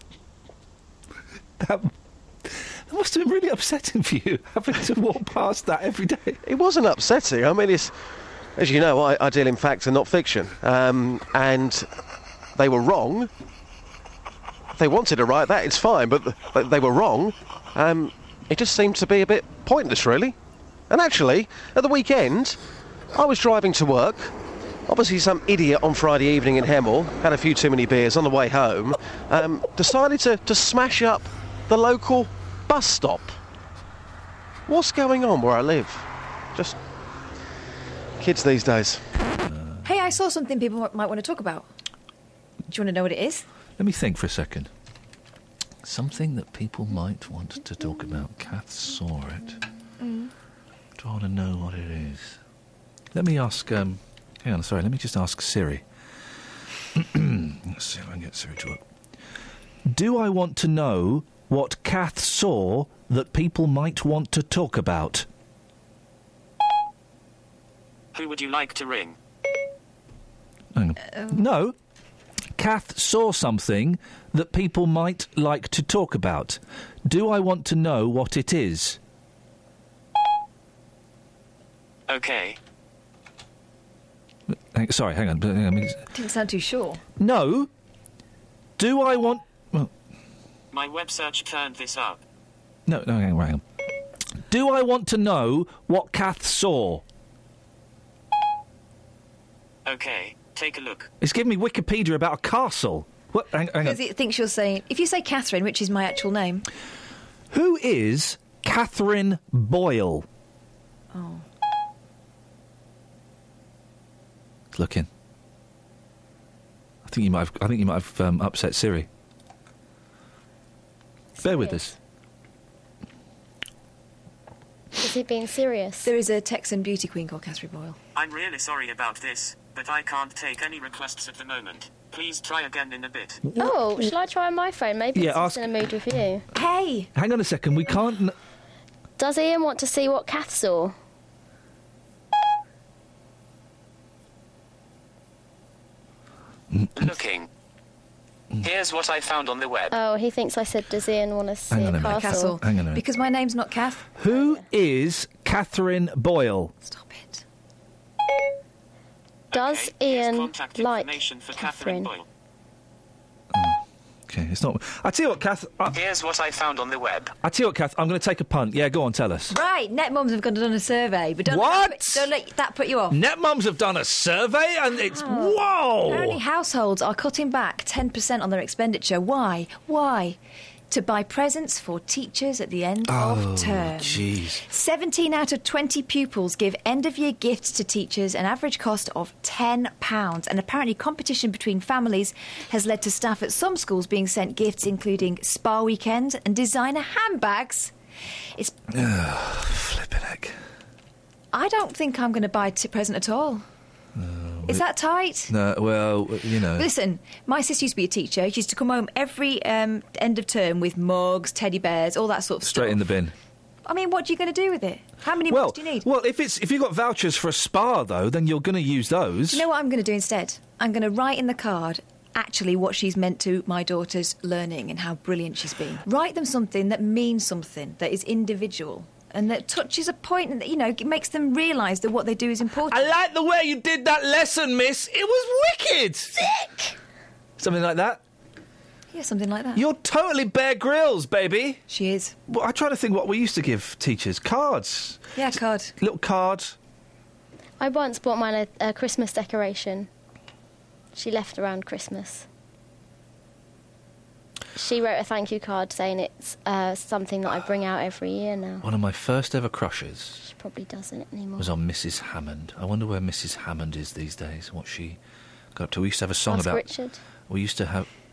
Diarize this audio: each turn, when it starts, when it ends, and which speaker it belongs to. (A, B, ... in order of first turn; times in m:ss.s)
0:01.6-0:01.9 A
0:02.4-0:06.4 A
0:06.4-0:07.9 B
0:08.6-0:11.9 B
0:12.6-0:13.3 B
0:14.7-0:20.4 B
0:20.9-0:22.6 B
0:23.1-0:24.3 B
0:24.9-0:33.4 B
0:34.7-0:36.8 B
0:38.2-0:39.0 B
0:39.5-0:39.8 A
0:39.8-0:41.7 C
0:42.7-0:43.4 C
0:43.8-0:44.7 A
0:45.8-0:49.6 A
0:50.0-0:50.3 C
0:51.0-0:52.4 A
0:53.1-0:55.8 A
0:56.9-0:58.8 A
0:59.8-1:05.3 A
1:08.1-1:09.2 D
1:10.7-1:11.7 A
1:12.6-1:19.0 A
1:22.1-1:22.6 D
1:24.7-1:26.0 A
1:26.1-1:27.0 C
1:27.2-1:27.7 A
1:28.8-1:29.9 A
1:30.7-1:32.2 D
1:32.9-1:33.6 A
1:34.5-1:37.0 A
1:39.8-1:41.1 D
1:41.2-1:44.0 A
1:43.8-1:46.6 C
1:47.5-1:50.2 A
1:51.1-1:51.4 C
1:54.7-1:55.1 A
1:57.0-1:59.1 A
2:01.4-2:01.8 E
2:01.4-2:01.9 A
2:05.0-2:06.1 E
2:06.0-2:08.0 C
2:08.1-2:13.4 D
2:13.4-2:13.7 A
2:13.6-2:16.4 E
2:15.1-2:15.7 A
2:16.5-2:17.1 C
2:17.1-2:18.3 A
2:19.2-2:20.9 E
2:27.0-2:27.5 D
2:28.6-2:29.9 D
2:29.9-2:32.5 E
2:31.7-2:33.0 A
2:32.1-2:34.2 C
2:34.2-2:36.7 A
2:36.8-2:37.4 C
2:39.5-2:42.2 D
2:39.5-2:42.1 E
2:43.5-2:46.0 A
2:45.9-2:47.3 D
2:47.4-2:49.6 A
2:49.5-2:53.2 C
2:51.4-2:52.3 A
2:53.1-2:56.4 A
2:55.2-3:00.4 C
3:00.9-3:17.9 C
3:03.1-3:04.6 A
3:18.6-3:18.9 C
3:18.9-3:20.6 A
3:21.5-3:23.6 C
3:24.2-3:24.8 A
3:24.6-3:25.5 C
3:25.5-3:26.9 A
3:26.7-3:33.0 C
3:32.6-3:33.3 A
3:33.8-3:36.1 C
3:35.5-3:39.6 A
3:39.5-3:53.1 C
3:52.9-3:56.4 A
3:57.6-3:58.2 A
3:59.1-3:59.8 C
3:59.7-4:01.8 A
4:01.9-4:02.3 C
4:02.5-4:05.2 A
4:05.4-4:05.9 C
4:06.0-4:06.7 A
4:07.8-4:10.1 E
4:11.1-4:12.4 E
4:14.8-4:18.8 E
4:18.8-4:20.4 A
4:20.4-4:21.7 E
4:21.6-4:25.2 A
4:25.7-4:26.9 A
4:26.5-4:27.2 E
4:27.5-4:28.1 A